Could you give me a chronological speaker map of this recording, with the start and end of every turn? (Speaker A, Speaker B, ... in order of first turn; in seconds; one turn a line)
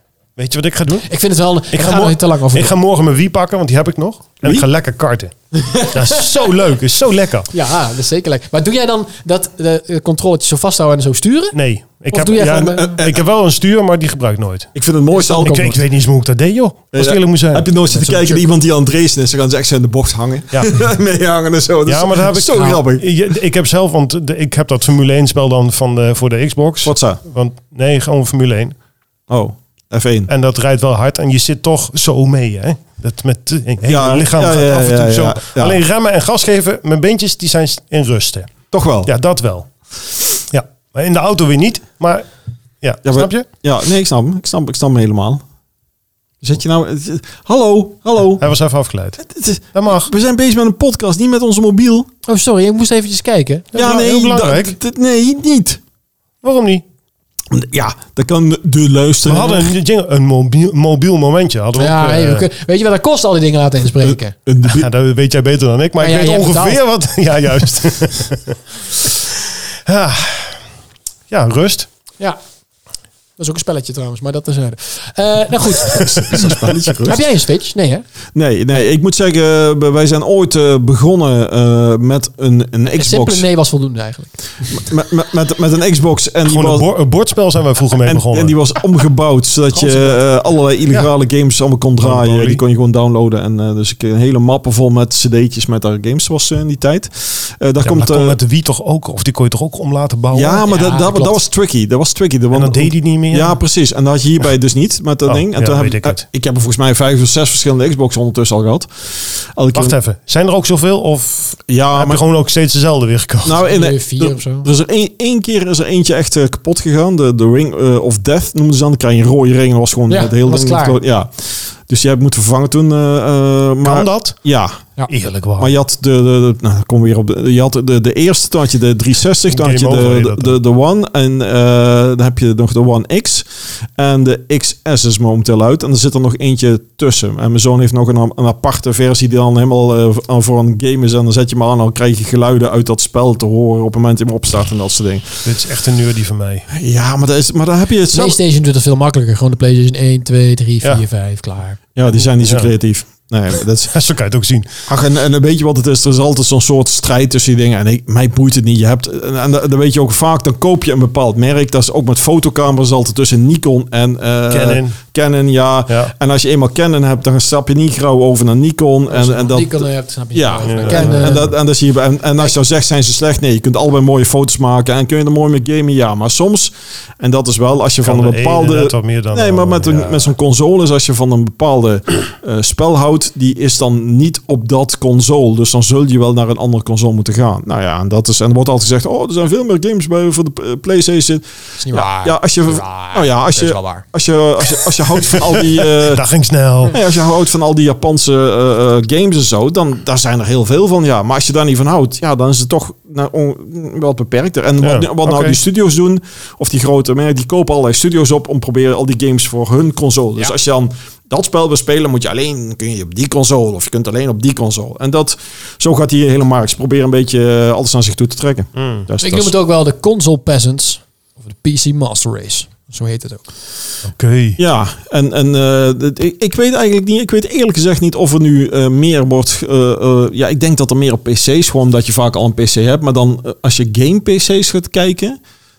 Speaker A: 0.4-1.1
Speaker B: 1.1-2.8
Speaker A: 1.7-7.5
Speaker B: 5.5-6.4
Speaker B: 7.5-11.6
Speaker A: 11.5-14.7
Speaker B: 12.1-13.0
Speaker C: 12.6-13.2
Speaker C: 14.8-15.8
Speaker B: 15.1-15.8
Speaker A: 15.4-18.2
Speaker C: 16.9-23.1
Speaker B: 18.1-18.3
Speaker A: 21.9-28.8
Speaker C: 26.9-27.2
Speaker C: 29.3-30.3
Speaker A: 30.3-38.5
Speaker C: 33.9-35.8
Speaker C: 38.7-39.1
Speaker A: 39.0-39.7
Speaker A: 40.5-42.3
Speaker A: 42.8-43.5
Speaker C: 43.0-45.4
Speaker C: 46.4-48.5
Speaker A: 48.4-49.2
Speaker C: 49.2-52.1
Speaker A: 49.7-50.1
Speaker B: 52.3-53.7
Speaker A: 53.7-54.8
Speaker C: 53.8-55.8
Speaker A: 56.4-56.8
Speaker C: 57.5-59.7
Speaker A: 59.2-62.5
Speaker B: 61.8-64.3
Speaker C: 64.0-64.9
Speaker A: 64.6-70.6
Speaker B: 66.0-66.8
Speaker A: 71.3-71.9
Speaker B: 73.4-78.0
Speaker C: 75.9-77.2
Speaker A: 76.2-77.0
Speaker C: 78.3-83.5
Speaker B: 82.9-84.4
Speaker C: 84.7-86.9
Speaker A: 86.5-88.6
Speaker C: 88.0-98.4
Speaker B: 89.7-90.2
Speaker A: 92.0-92.6
Speaker A: 97.8-100.7
Speaker C: 100.3-110.0
Speaker B: 100.7-101.4
Speaker A: 102.5-103.6
Speaker A: 105.3-106.2
Speaker A: 109.7-113.7
Speaker C: 111.7-112.2
Speaker C: 113.5-124.9
Speaker B: 113.6-114.7
Speaker B: 120.1-121.0
Speaker A: 123.8-124.4
Speaker A: 125.1-125.8
Speaker C: 125.6-133.4
Speaker A: 129.5-130.6
Speaker C: 134.0-145.4
Speaker A: 145.4-146.7
Speaker C: 146.7-148.4
Speaker B: 148.1-151.8
Speaker C: 152.0-153.9
Speaker A: 152.2-152.7
Speaker A: 153.9-154.7
Speaker C: 154.9-196.2
Speaker A: 164.5-165.0
Speaker B: 169.1-171.5
Speaker A: 170.7-171.5
Speaker A: 178.0-180.3
Speaker B: 191.8-194.1
Speaker A: 195.3-197.0
Speaker C: 196.9-219.5
Speaker A: 204.8-205.6
Speaker A: 218.8-219.1
Speaker B: 219.2-223.4
Speaker A: 224.0-224.6
Speaker C: 224.6-235.4